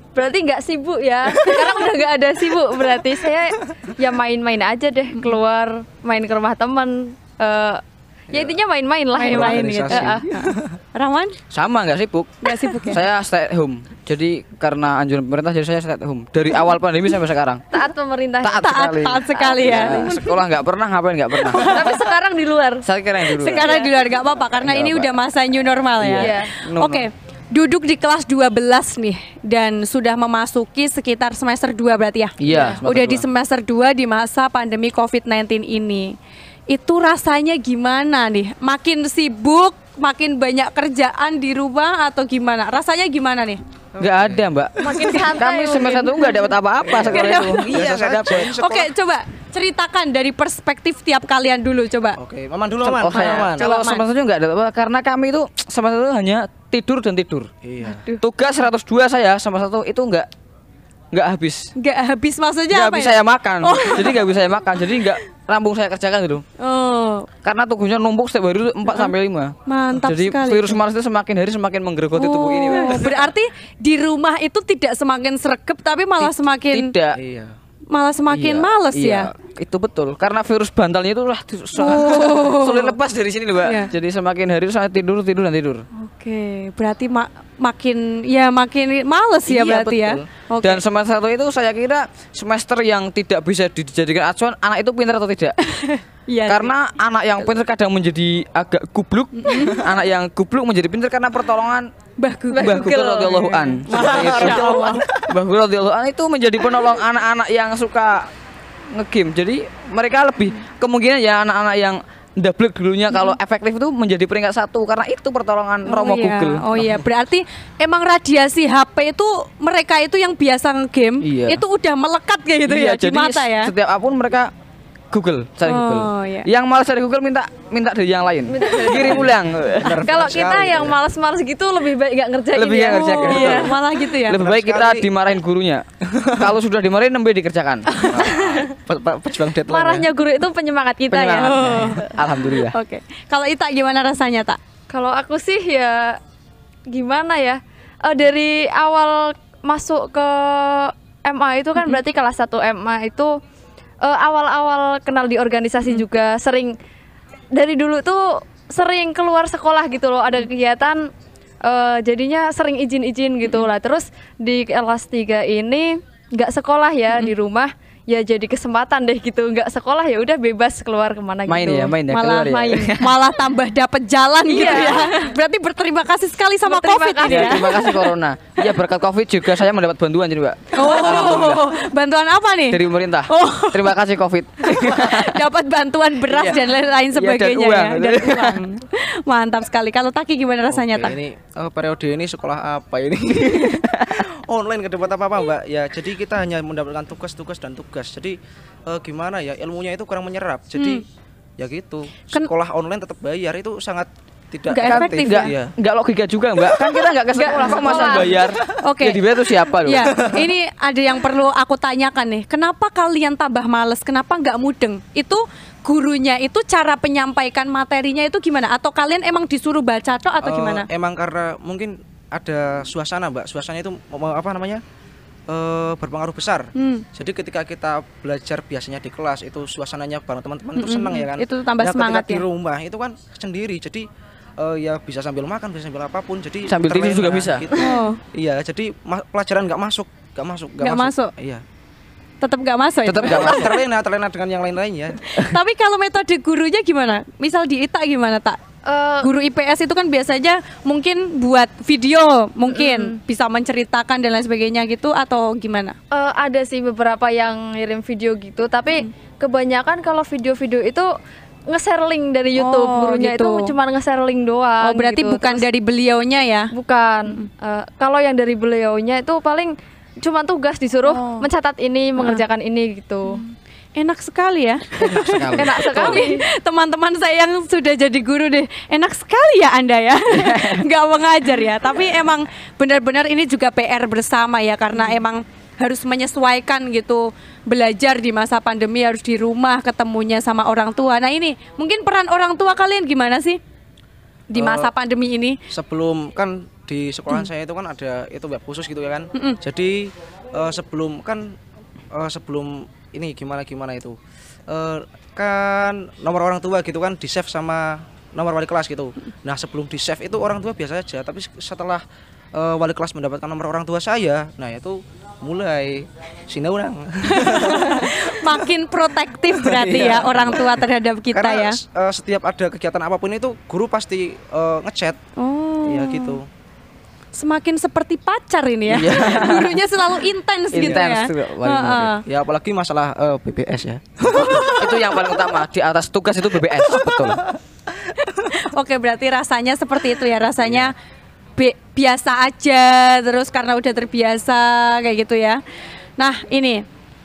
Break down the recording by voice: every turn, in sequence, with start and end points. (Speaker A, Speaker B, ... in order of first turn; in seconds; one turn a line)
Speaker A: 0.1-10.2
Speaker B: 8.3-8.6
Speaker C: 9.1-11.3
Speaker B: 9.2-10.8
Speaker D: 11.5-17.6
Speaker C: 12.4-13.0
Speaker A: 17.7-20.4
Speaker D: 18.4-22.0
Speaker C: 18.6-20.2
Speaker C: 21.4-21.9
Speaker A: 21.5-22.9
Speaker D: 22.8-23.8
Speaker C: 23.3-36.1
Speaker A: 23.6-23.9
Speaker D: 24.6-25.1
Speaker D: 26.0-27.1
Speaker A: 26.2-26.5
Speaker D: 32.4-33.2
Speaker A: 32.5-32.8
Speaker C: 36.7-43.6
Speaker B: 43.9-45.2
Speaker D: 44.0-48.6
Speaker A: 44.8-46.5
Speaker B: 46.9-48.9
Speaker C: 47.0-47.8
Speaker C: 48.6-52.2
Speaker B: 52.2-53.7
Speaker D: 52.9-57.5
Speaker C: 53.0-54.0
Speaker B: 57.6-58.0
Speaker C: 57.8-58.2
Speaker D: 58.2-60.3
Speaker D: 61.1-61.7
Speaker C: 61.8-64.3
Speaker D: 62.7-66.4
Speaker C: 66.6-67.3
Speaker D: 67.4-73.3
Speaker C: 69.7-70.8
Speaker C: 72.1-76.9
Speaker D: 76.2-77.2
Speaker B: 77.2-77.5
Speaker C: 77.9-79.3
Speaker D: 78.3-85.8
Speaker C: 81.8-83.0
Speaker C: 83.6-83.9
Speaker C: 85.9-90.8
Speaker B: 89.5-90.2
Speaker D: 90.6-95.6
Speaker C: 95.6-96.7
Speaker D: 96.5-101.9
Speaker C: 99.4-99.9
Speaker C: 102.2-103.2
Speaker A: 102.5-103.8
Speaker D: 102.5-108.3
Speaker B: 103.8-105.3
Speaker C: 103.9-105.0
Speaker D: 108.9-117.0
Speaker C: 115.9-123.7
Speaker D: 121.2-121.6
Speaker D: 122.6-124.5
Speaker D: 125.1-130.0
Speaker C: 125.7-126.5
Speaker A: 128.4-129.3
Speaker B: 129.0-131.0
Speaker A: 130.0-133.8
Speaker D: 132.5-138.6
Speaker C: 132.9-134.4
Speaker B: 134.3-135.1
Speaker B: 136.1-136.5
Speaker B: 138.0-140.1
Speaker A: 139.7-141.7
Speaker D: 141.1-142.8
Speaker C: 141.4-144.6
Speaker A: 144.9-146.2
Speaker A: 146.9-153.4
Speaker A: 154.0-156.8
Speaker A: 157.5-161.1
Speaker A: 161.6-172.9
Speaker D: 171.4-173.2
Speaker C: 172.1-178.0
Speaker A: 174.5-175.3
Speaker A: 176.7-177.9
Speaker D: 177.2-181.8
Speaker C: 180.7-184.0
Speaker B: 181.2-181.5
Speaker D: 182.7-185.4
Speaker C: 184.6-191.2
Speaker D: 186.3-188.7
Speaker B: 190.8-198.3
Speaker D: 193.4-194.2
Speaker B: 198.9-201.0
Speaker C: 200.8-201.0
Speaker B: 201.6-205.7
Speaker C: 204.7-205.5
Speaker D: 204.8-210.2
Speaker A: 207.3-208.3
Speaker C: 207.3-209.2
Speaker B: 208.3-208.7
Speaker C: 209.8-220.9
Speaker B: 220.4-224.8
Speaker B: 225.5-234.1
Speaker C: 226.8-227.0
Speaker C: 230.8-232.4
Speaker B: 234.6-241.6
Speaker D: 236.7-237.7
Speaker C: 237.8-238.2
Speaker C: 240.8-241.3
Speaker C: 242.4-243.8
Speaker D: 243.0-243.7
Speaker B: 243.2-245.2
Speaker C: 245.3-248.6
Speaker A: 248.8-249.3
Speaker C: 249.2-255.9
Speaker A: 252.7-253.2
Speaker A: 256.1-261.1
Speaker A: 261.7-265.6
Speaker C: 262.6-263.7
Speaker C: 264.8-266.7
Speaker A: 266.7-273.4
Speaker C: 271.1-271.5
Speaker C: 273.3-293.6
Speaker D: 275.0-276.2
Speaker A: 275.5-276.4
Speaker D: 280.3-280.8
Speaker C: 294.5-295.6
Speaker B: 294.5-294.9
Speaker B: 295.7-301.6
Speaker B: 302.1-304.2
Speaker B: 304.7-312.0
Speaker B: 312.5-318.6
Speaker C: 317.3-321.8
Speaker B: 319.5-320.8
Speaker B: 321.3-325.2
Speaker C: 325.4-326.4
Speaker B: 325.8-326.5
Speaker C: 327.3-332.2
Speaker D: 328.9-329.8
Speaker B: 329.0-329.6
Speaker D: 330.7-332.1
Speaker B: 332.2-335.0
Speaker C: 334.3-334.9
Speaker D: 334.4-337.4
Speaker B: 337.1-337.4
Speaker C: 338.4-340.9
Speaker D: 340.6-340.9
Speaker C: 341.6-345.6
Speaker C: 346.2-346.8